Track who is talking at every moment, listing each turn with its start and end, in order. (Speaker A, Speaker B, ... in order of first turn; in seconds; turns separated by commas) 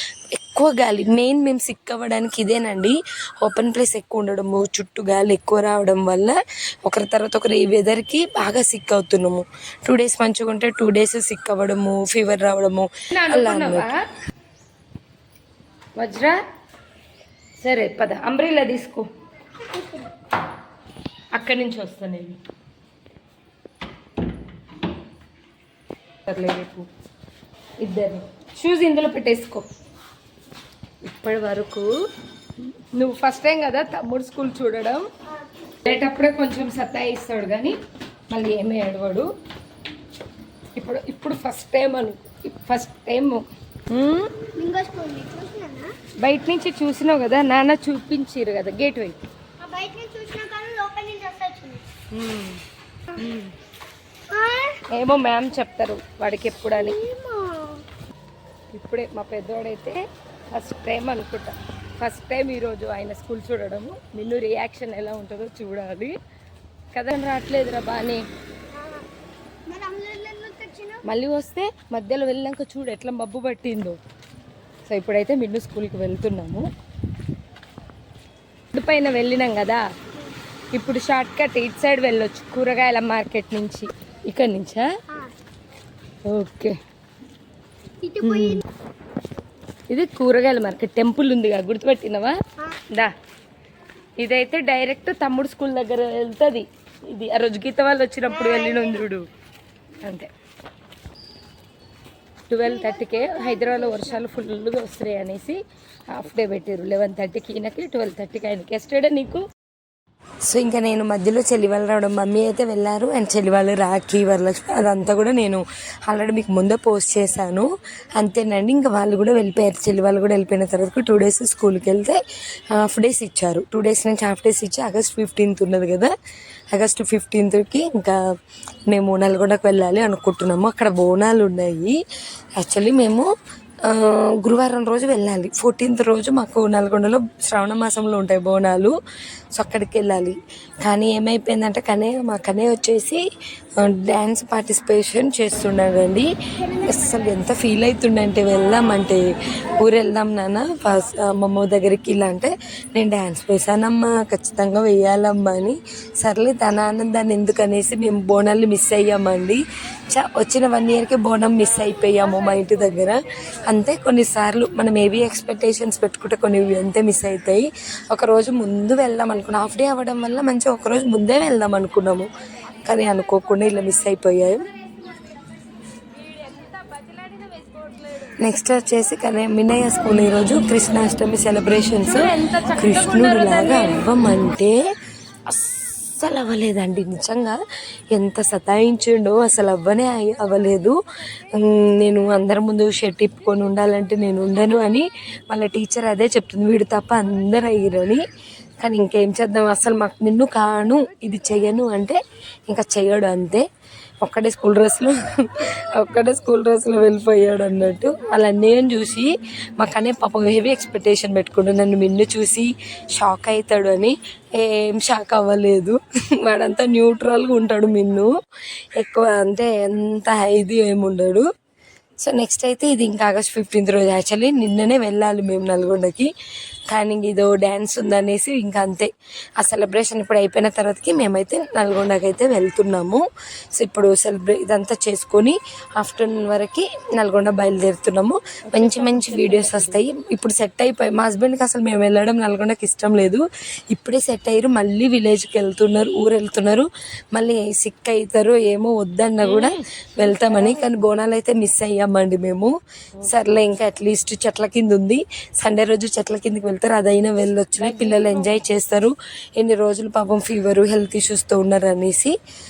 Speaker A: 0.3-13.9, Speaker B: 13.1-13.9, Speaker B: 16.0-16.4, Speaker B: 17.6-19.0, Speaker C: 19.7-20.1, Speaker B: 21.3-22.4, Speaker B: 26.3-26.9, Speaker B: 27.8-29.6, Speaker B: 31.1-31.9, Speaker B: 32.9-35.0, Speaker B: 35.8-37.8, Speaker B: 38.3-39.3, Speaker B: 40.8-44.3, Speaker C: 44.5-46.0, Speaker B: 46.2-49.2, Speaker C: 49.6-51.8, Speaker B: 52.1-52.6, Speaker B: 53.2-53.5, Speaker C: 54.3-54.8, Speaker B: 54.9-57.0, Speaker C: 56.7-57.8, Speaker B: 58.7-66.1, Speaker B: 66.9-68.2, Speaker C: 68.7-69.0, Speaker C: 69.7-71.0, Speaker B: 71.0-74.0, Speaker B: 74.8-76.7, Speaker B: 78.7-79.8, Speaker B: 80.7-84.9, Speaker B: 86.3-86.7, Speaker C: 88.0-88.6, Speaker B: 88.2-88.6, Speaker B: 89.9-92.3, Speaker B: 94.2-99.2, Speaker C: 98.5-99.0, Speaker B: 100.0-100.3, Speaker B: 102.5-105.6, Speaker C: 102.9-104.0, Speaker B: 106.1-109.4, Speaker A: 110.4-122.2, Speaker A: 122.7-126.1, Speaker A: 126.7-128.2, Speaker A: 128.9-131.9, Speaker A: 132.6-133.3, Speaker A: 133.8-138.9, Speaker A: 139.5-143.2, Speaker A: 143.8-149.2, Speaker A: 149.8-172.3, Speaker A: 172.8-174.6, Speaker B: 176.9-177.9, Speaker A: 178.2-184.8, Speaker B: 182.0-184.1, Speaker A: 185.5-187.6, Speaker A: 188.1-191.0, Speaker A: 191.5-198.2, Speaker A: 198.8-202.2, Speaker A: 202.7-203.6, Speaker A: 204.2-218.3, Speaker A: 218.9-221.4, Speaker A: 222.2-226.3, Speaker A: 226.9-229.1, Speaker A: 229.6-233.2, Speaker A: 233.8-252.7, Speaker B: 238.7-240.0, Speaker B: 249.4-250.8, Speaker A: 253.2-262.3, Speaker B: 257.8-258.5